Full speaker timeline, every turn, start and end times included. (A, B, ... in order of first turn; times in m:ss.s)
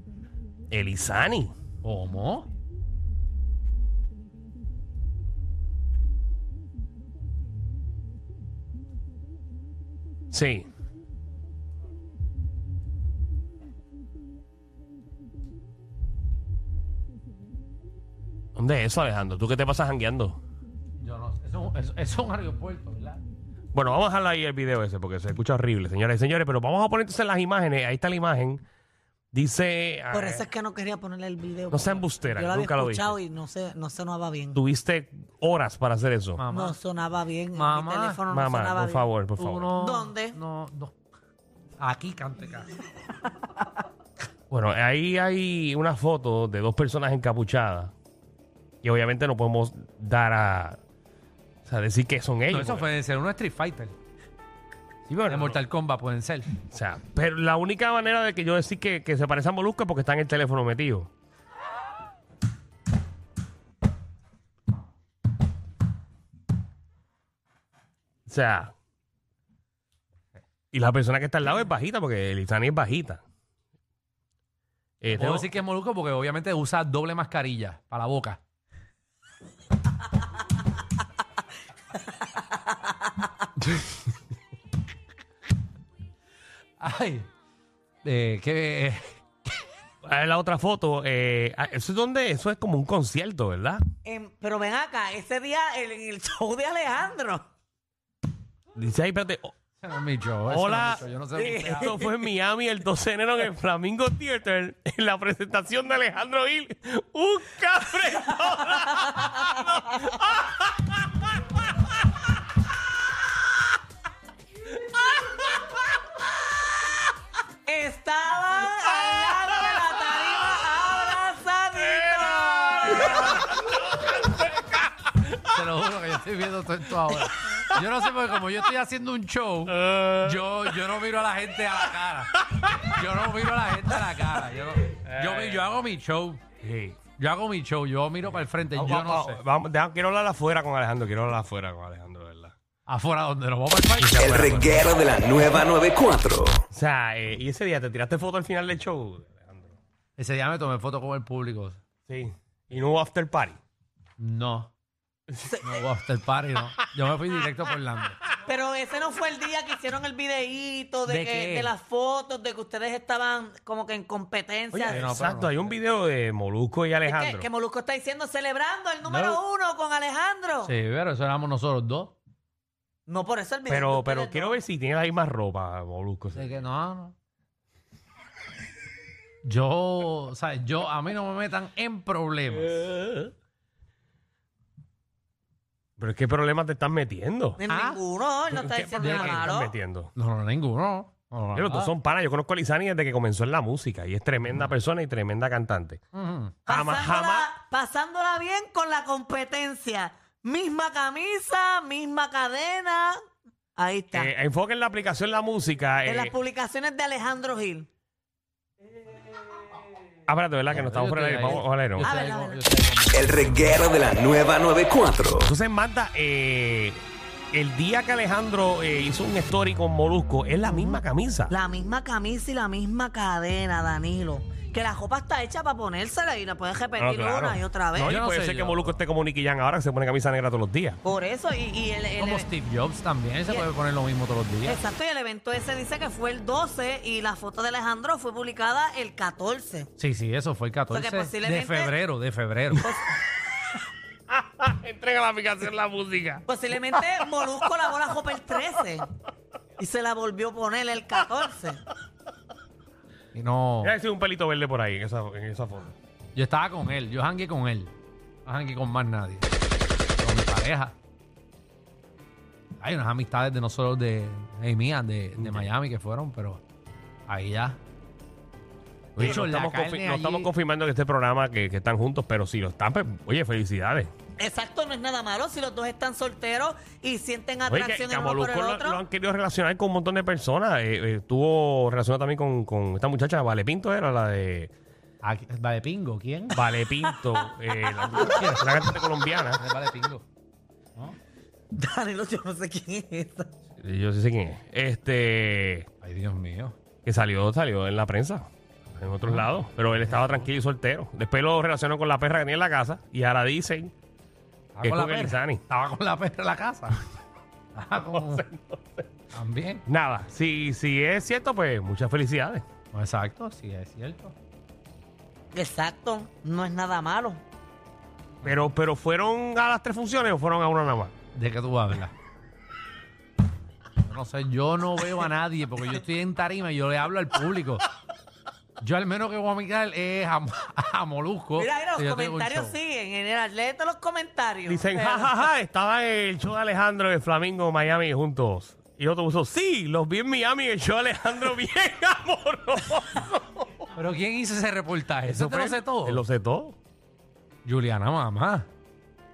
0:00.7-0:01.5 A
0:01.8-0:02.5 B
0:10.3-0:10.7 A
0:18.6-0:20.4 A
0:21.0-0:23.2 B
0:23.7-0:28.6 A
0:29.3-0:30.5 A
0:30.1-0:34.6 C
0:31.7-0:33.2 A
0:34.6-0:36.4 A
0:36.4-0:36.8 B
0:36.5-0:39.1 C
0:37.6-0:38.2 B
0:38.3-0:39.7 A
0:39.4-0:40.9 B
0:39.8-0:40.4 C
0:41.8-0:42.7 B
0:44.5-0:47.9 A
0:48.8-0:50.8 A
0:51.7-0:52.9 A
0:52.5-0:54.0 B
0:55.1-0:55.6 A
0:55.3-0:56.6 B
0:56.7-1:01.1 A
1:08.3-1:08.7 A
1:10.7-1:13.2 A
1:15.0-1:15.5 A
1:15.1-1:18.4 B
1:23.6-1:24.0 B
1:26.8-1:27.3 B
1:28.0-1:29.2 B
1:30.0-1:33.8 A
1:34.0-1:37.5 C
1:38.8-1:39.5 A
1:39.8-1:42.0 B
1:40.5-1:41.0 A
1:41.4-1:42.0 C
1:41.6-1:51.3 A
1:49.0-1:49.8 C
1:57.7-2:03.4 C
2:01.9-2:05.2 A
2:05.4-2:16.4 B
2:09.7-2:10.8 A
2:15.1-2:15.6 A
2:16.6-2:17.0 A
2:17.2-2:19.4 B
2:18.7-2:22.5 A
2:22.9-2:24.9 B
2:24.0-2:24.6 A
2:24.2-2:26.6 D
2:26.7-2:29.7 A
2:30.2-2:31.8 B
2:32.1-2:33.6 A
2:34.2-2:34.7 B
2:35.3-2:35.7 A
2:35.5-2:35.8 C
2:35.6-2:38.2 B
2:38.4-2:45.0 C
2:41.1-2:41.7 B
2:44.7-2:47.5 A
2:44.9-2:45.8 B
2:47.0-2:50.7 C
2:49.0-2:49.4 B
2:50.6-2:52.2 B
2:53.1-2:54.6 C
2:53.7-2:56.5 A
2:56.4-2:57.1 B
2:59.4-3:03.2 B
3:06.0-3:07.6 A
3:07.6-3:09.7 C
3:07.7-3:08.0 B
3:08.5-3:10.1 A
3:09.0-3:09.6 B
3:10.2-3:11.9 B
3:11.5-3:16.0 A
3:16.1-3:16.6 B
3:16.7-3:17.5 A
3:16.7-3:23.2 C
3:23.8-3:24.3 C
3:24.1-3:26.4 A
3:26.1-3:27.9 C
3:30.3-3:32.1 A
3:30.7-3:33.9 B
3:32.0-3:32.6 C
3:33.1-3:35.5 D
3:35.4-3:41.5 A
3:41.5-3:48.2 C
3:47.0-3:51.0 A
3:48.1-3:49.0 B
3:51.0-3:52.5 C
3:52.2-3:54.8 B
3:54.6-3:59.9 C
4:00.0-4:03.0 B
4:00.9-4:01.9 C
4:04.3-4:07.9 A
4:06.5-4:09.1 C
4:09.8-4:11.8 C
4:13.3-4:13.9 B
4:13.8-4:16.0 A
4:16.4-4:17.9 B
4:18.5-4:19.5 B
4:20.2-4:21.0 B
4:22.8-4:26.6 B
4:25.4-4:25.7 A
4:27.3-4:27.8 B
4:29.2-4:30.5 B
4:29.2-4:34.1 A
4:34.4-4:39.0 C
4:37.7-4:44.7 A
4:45.2-4:46.6 B
4:46.5-4:49.6 A
4:48.1-4:48.8 B
4:49.6-4:50.2 B
4:51.8-4:53.5 C
4:53.8-4:55.9 A
4:56.0-4:56.8 B
4:57.0-4:58.5 A
4:59.0-5:03.9 A
5:00.1-5:00.4 B
5:04.8-5:07.0 B
5:04.8-5:05.6 A
5:07.8-5:08.5 B
5:07.9-5:09.1 A
5:09.3-5:09.8 B
5:09.9-5:12.6 A
5:12.9-5:14.3 B
5:15.5-5:17.4 C
5:18.4-5:21.1 A
5:21.4-5:22.1 B
5:24.0-5:27.9 B
5:28.8-5:32.8 B
5:31.6-5:35.4 C
5:34.7-5:43.9 A
5:44.0-5:46.2 B
5:45.3-5:46.8 A
5:47.6-5:48.7 B